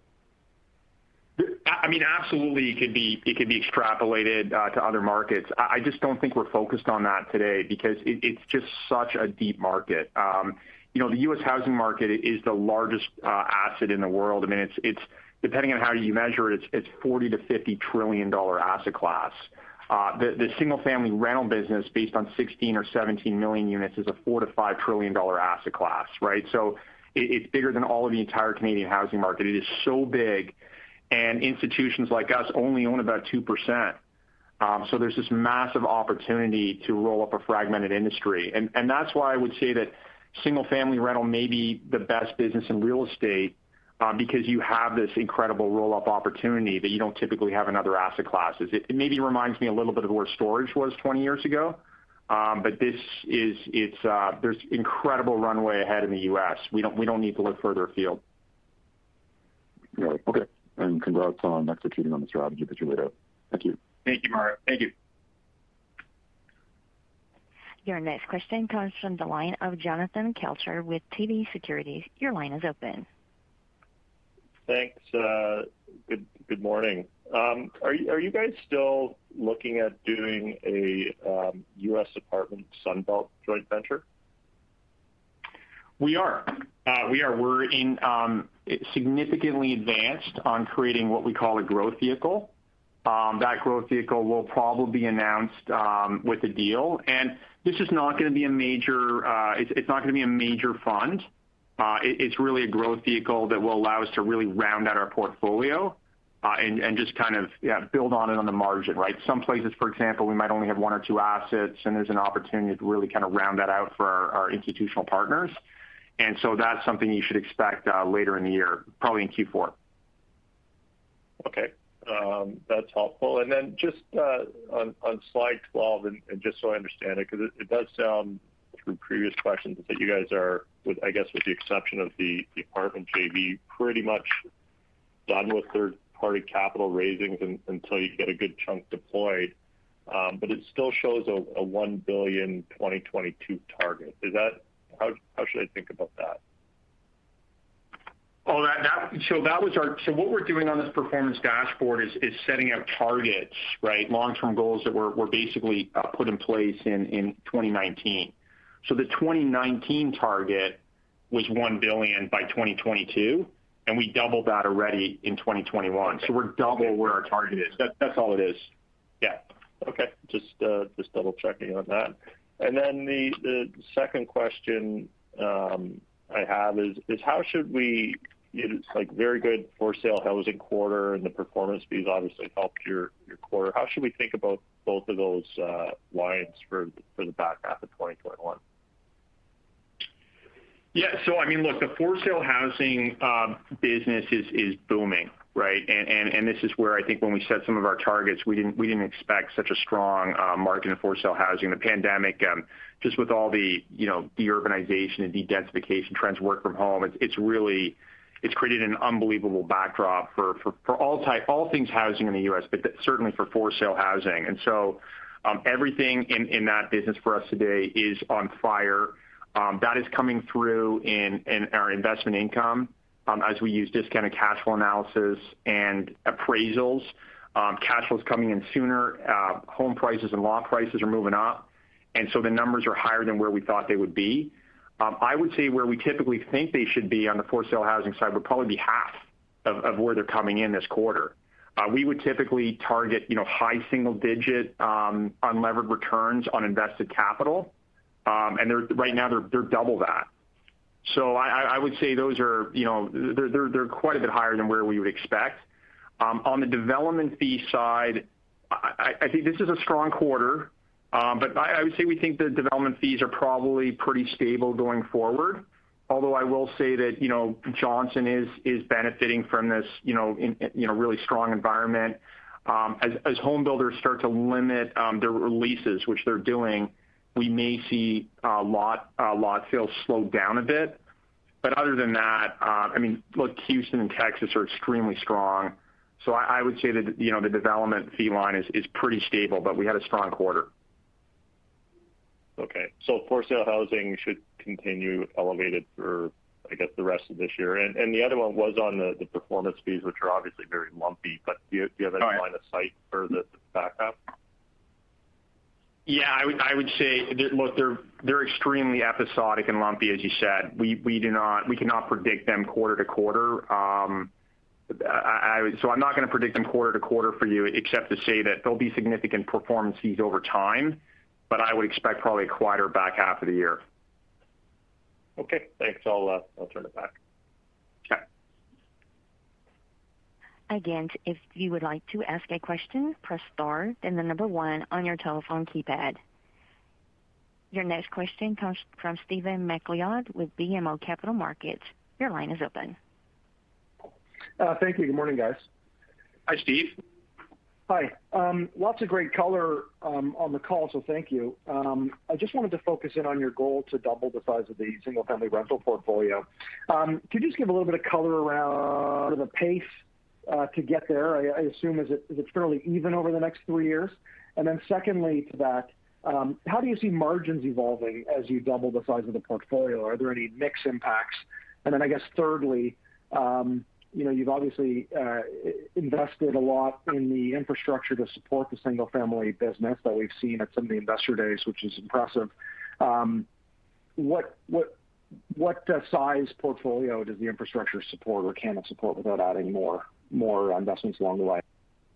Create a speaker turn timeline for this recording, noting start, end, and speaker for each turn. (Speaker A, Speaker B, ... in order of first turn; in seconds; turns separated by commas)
Speaker A: 1.4-30.6, Speaker A: 31.1-34.0, Speaker A: 34.6-58.2, Speaker B: 60.0-63.8, Speaker A: 64.0-64.9, Speaker C: 67.8-73.0, Speaker D: 74.7-84.0, Speaker A: 86.0-92.5, Speaker A: 93.0-101.3, Speaker A: 101.8-115.6, Speaker A: 116.2-119.7, Speaker D: 121.4-134.4, Speaker D: 135.3-139.6, Speaker D: 140.1-146.4, Speaker A: 148.4-158.3, Speaker A: 158.8-160.8, Speaker A: 161.3-168.7, Speaker D: 169.2-188.6, Speaker A: 190.9-247.7, Speaker A: 248.2-250.3, Speaker A: 251.0-255.6, Speaker A: 256.2-281.0, Speaker A: 281.6-290.7, Speaker D: 292.6-304.2, Speaker A: 306.1-314.3, Speaker A: 314.9-323.8, Speaker D: 325.4-327.1, Speaker C: 330.7-336.2, Speaker C: 337.7-343.0, Speaker E: 344.6-345.6, Speaker A: 346.5-346.9, Speaker E: 347.9-383.5, Speaker E: 384.2-384.9, Speaker E: 385.5-391.6